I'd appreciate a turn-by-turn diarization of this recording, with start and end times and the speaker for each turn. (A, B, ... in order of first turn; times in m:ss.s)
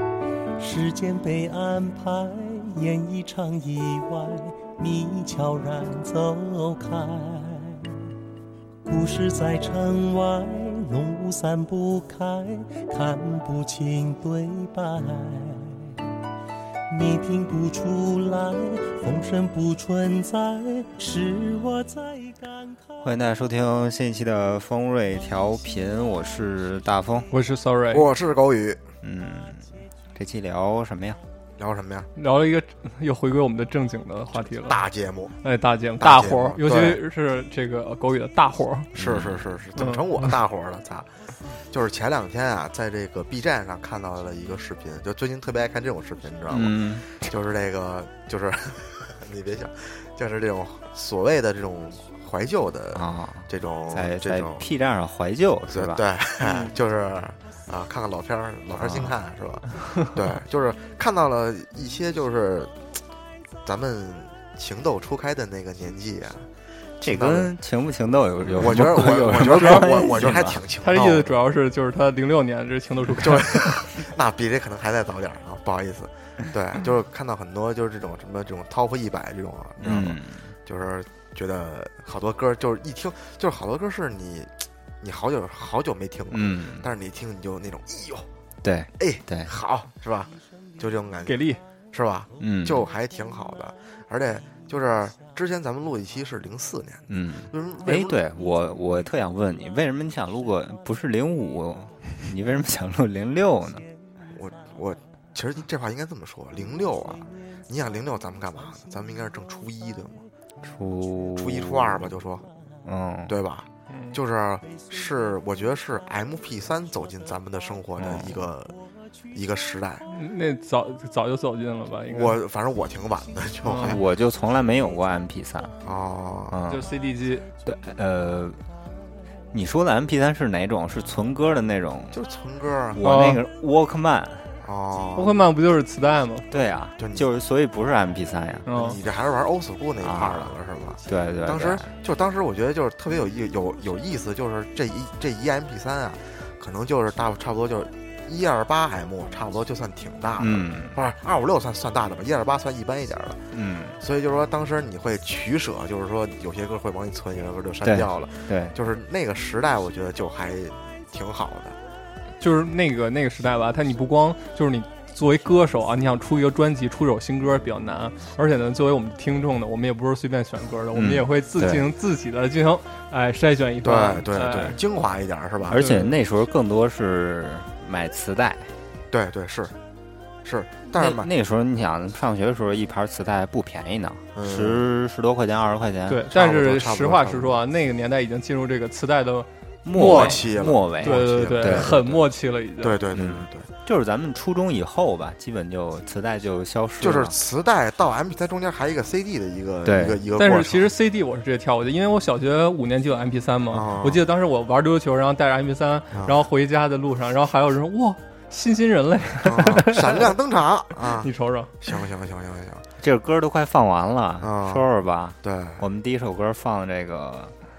0:00.6-0:08.0 A
0:08.8-0:16.0 A
0:16.9-0:22.9 A
0:23.0-0:27.3 B
0:27.3-0:28.1 C
0:27.9-0:28.8 D
0:29.0-0:31.2 B
0:31.6-0:32.1 D
0:32.2-0:34.8 C
0:34.4-0:35.4 D
0:35.4-0:38.9 C
0:36.0-0:37.0 D
0:39.0-0:39.5 B
0:39.0-0:41.1 D
0:39.8-0:40.0 C
0:41.7-0:54.6 D
0:46.5-0:47.1 B
0:53.0-0:56.7 B
0:55.7-1:02.8 D
0:58.8-0:59.2 B
1:03.6-1:06.5 D
1:07.0-1:07.5 D
1:07.0-1:10.6 B
1:08.4-1:11.4 D
1:09.5-1:10.1 C
1:10.8-1:13.6 C
1:13.2-1:28.3 D
1:19.8-1:20.5 B
1:26.3-1:26.9 B
1:28.6-1:29.5 B
1:29.0-1:38.2 D
1:31.3-1:31.6 C
1:32.4-1:32.9 B
1:37.1-1:43.8 B
1:44.4-1:50.2 D
1:50.6-1:52.1 B
1:51.4-1:52.4 D
1:52.8-1:53.4 B
1:53.3-1:58.8 D
1:53.9-1:54.2 C
1:58.0-1:58.4 B
1:59.3-2:00.0 D
2:00.1-2:02.3 C
2:02.1-2:04.0 D
2:03.6-2:04.0 C
2:03.8-2:05.7 B
2:05.8-2:06.6 D
2:06.5-2:06.8 B
2:06.7-2:07.4 C
2:07.6-2:08.6 B
2:09.5-2:12.2 B
2:12.1-2:13.0 D
2:12.9-2:14.5 B
2:13.0-2:13.4 C
2:14.6-2:15.4 D
2:15.2-2:16.4 C
2:16.5-2:18.7 B
2:17.0-2:17.2 D
2:18.7-2:19.0 C
2:18.7-2:33.4 D
2:20.0-2:20.6 B
2:21.1-2:21.9 B
2:30.4-2:31.0 B
2:33.5-2:34.0 B
2:34.0-2:41.8 D
2:37.8-2:38.7 B
2:42.4-2:54.8 C
2:50.9-2:51.9 B
2:53.8-2:55.8 D
2:55.7-2:58.7 B
2:55.8-2:56.1 C
2:59.1-2:59.7 D
3:00.4-3:01.3 D
3:01.0-3:06.2 B
3:04.4-3:04.8 D
3:06.1-3:10.4 C
3:06.3-3:07.6 D
3:09.8-3:12.2 B
3:10.0-3:12.0 D
3:11.0-3:13.0 C
3:12.8-3:13.7 D
3:13.1-3:17.4 B
3:17.0-3:20.9 D
3:19.8-3:20.2 B
3:20.4-3:30.3 C
3:23.7-3:24.2 D
3:26.1-3:26.4 D
3:29.4-3:31.3 D
3:31.2-3:31.7 C
3:31.8-3:32.8 D
3:33.0-3:37.5 B
3:34.4-3:34.9 D
3:35.4-3:35.8 D